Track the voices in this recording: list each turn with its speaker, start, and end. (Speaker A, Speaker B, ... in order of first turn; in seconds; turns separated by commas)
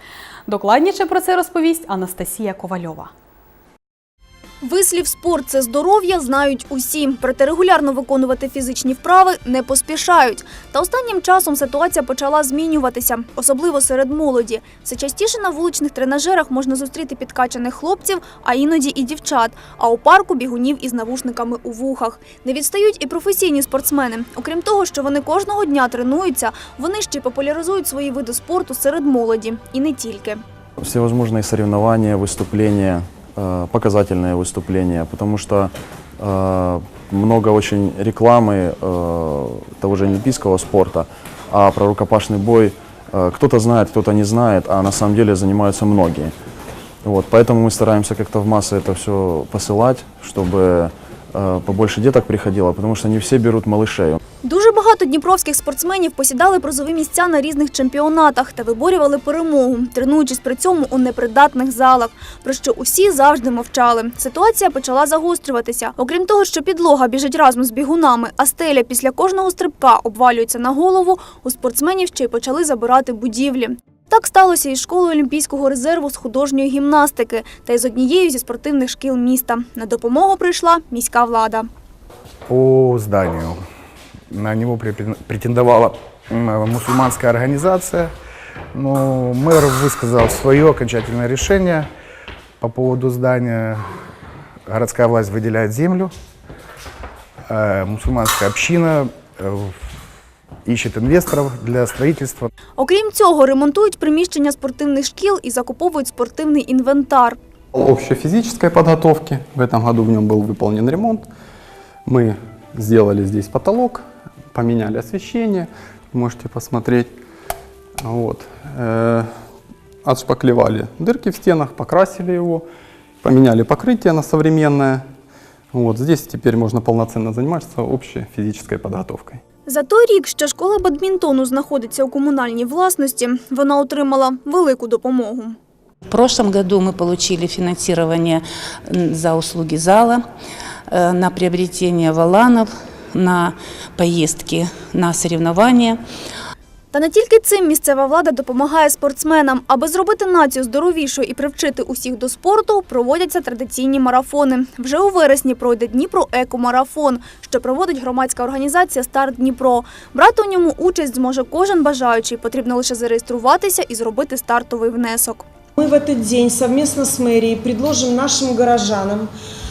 Speaker A: 0.5-3.1, Speaker B: 4.6-30.4, Speaker C: 30.8-46.3, Speaker C: 47.0-54.2, Speaker B: 54.4-81.7, Speaker D: 82.5-83.6, Speaker D: 84.3-88.1, Speaker D: 88.8-91.9, Speaker D: 92.6-93.8, Speaker D: 94.7-96.1, Speaker D: 97.5-99.8, Speaker D: 100.7-102.5, Speaker B: 102.8-107.4, Speaker E: 107.7-111.3, Speaker E: 112.1-117.2, Speaker E: 118.0-119.3, Speaker E: 120.0-122.7, Speaker E: 123.2-125.0, Speaker E: 125.7-129.4, Speaker B: 129.7-135.6, Speaker F: 136.1-140.2, Speaker F: 140.9-146.0, Speaker B: 146.9-165.4, Speaker G: 165.8-169.3